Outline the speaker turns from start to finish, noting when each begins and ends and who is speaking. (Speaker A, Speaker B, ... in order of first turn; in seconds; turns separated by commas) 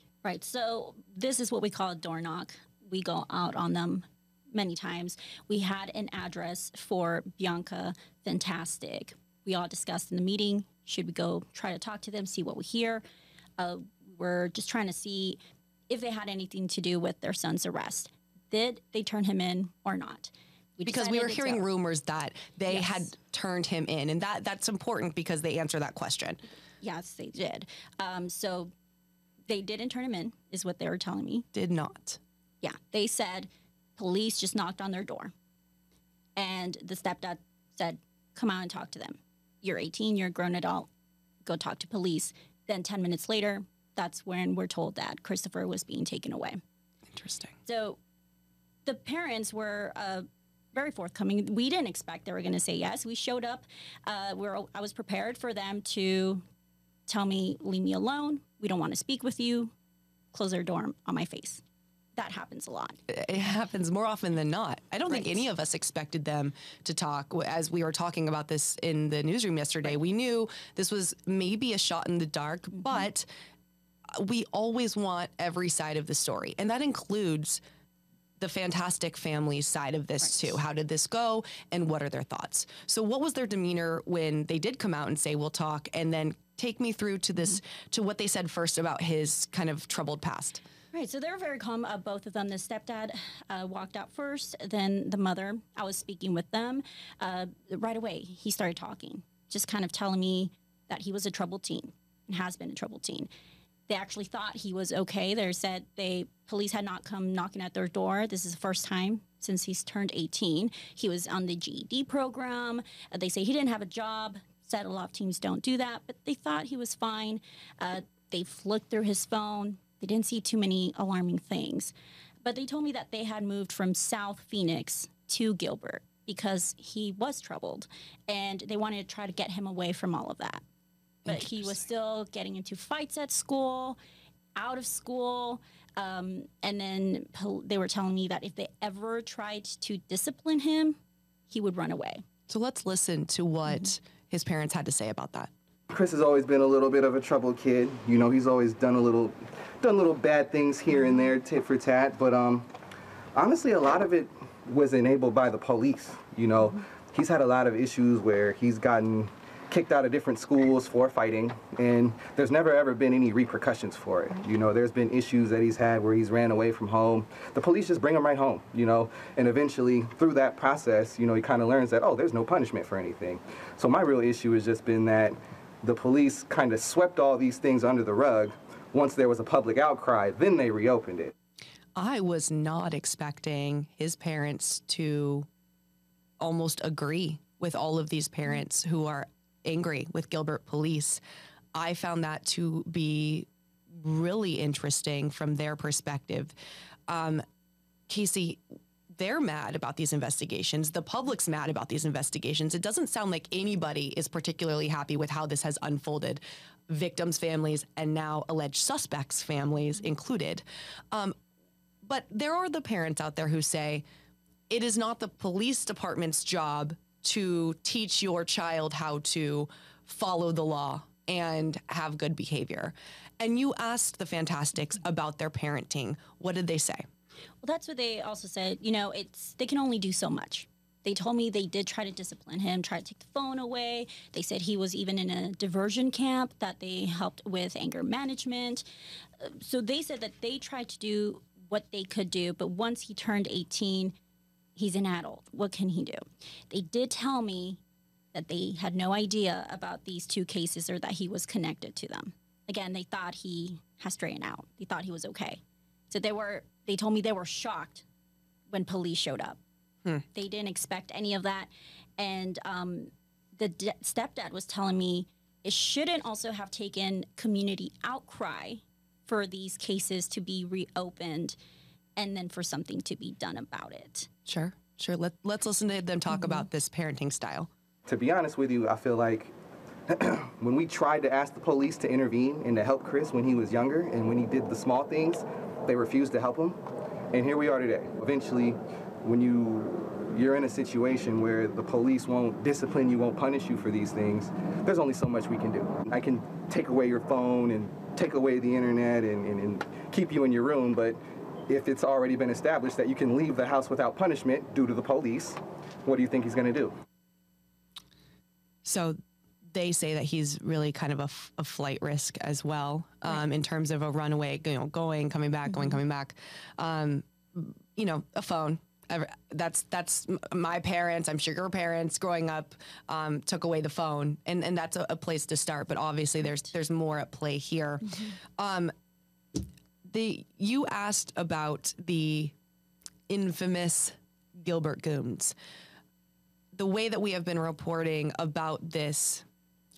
Speaker A: 0.2-13.0, Speaker A: 13.6-21.6, Speaker B: 20.9-26.4, Speaker A: 22.7-23.0, Speaker A: 26.8-28.7, Speaker A: 29.5-31.5, Speaker B: 31.5-32.2, Speaker A: 32.6-35.3, Speaker A: 36.4-40.9, Speaker A: 41.5-46.6, Speaker B: 47.1-47.6, Speaker A: 47.7-48.0, Speaker A: 48.9-56.4, Speaker A: 57.1-59.7, Speaker A: 60.3-61.6, Speaker A: 62.2-63.0, Speaker B: 63.1-73.3, Speaker A: 65.1-65.4, Speaker B: 74.1-77.6, Speaker B: 78.4-90.6, Speaker A: 90.9-103.3, Speaker A: 103.9-121.9, Speaker A: 122.4-130.6, Speaker B: 131.2-131.8, Speaker A: 131.2-134.0, Speaker A: 134.6-141.0, Speaker A: 141.5-142.2, Speaker B: 142.5-145.5, Speaker C: 145.9-152.7, Speaker C: 153.3-181.3, Speaker B: 182.0-185.5, Speaker B: 186.4-191.2, Speaker B: 191.7-196.5, Speaker B: 197.1-197.4, Speaker B: 198.1-211.3, Speaker B: 212.0-214.0, Speaker B: 214.7-227.1, Speaker A: 227.6-238.8, Speaker A: 239.4-244.1, Speaker A: 244.8-247.8, Speaker A: 248.3-258.1, Speaker A: 258.7-259.6, Speaker A: 260.3-271.6, Speaker A: 272.2-274.3, Speaker B: 274.5-277.7, Speaker C: 278.1-279.5, Speaker C: 280.1-286.8, Speaker C: 287.3-306.9, Speaker B: 308.9-309.2, Speaker B: 309.7-328.9, Speaker B: 330.0-332.5, Speaker B: 333.3-335.5, Speaker B: 336.7-339.4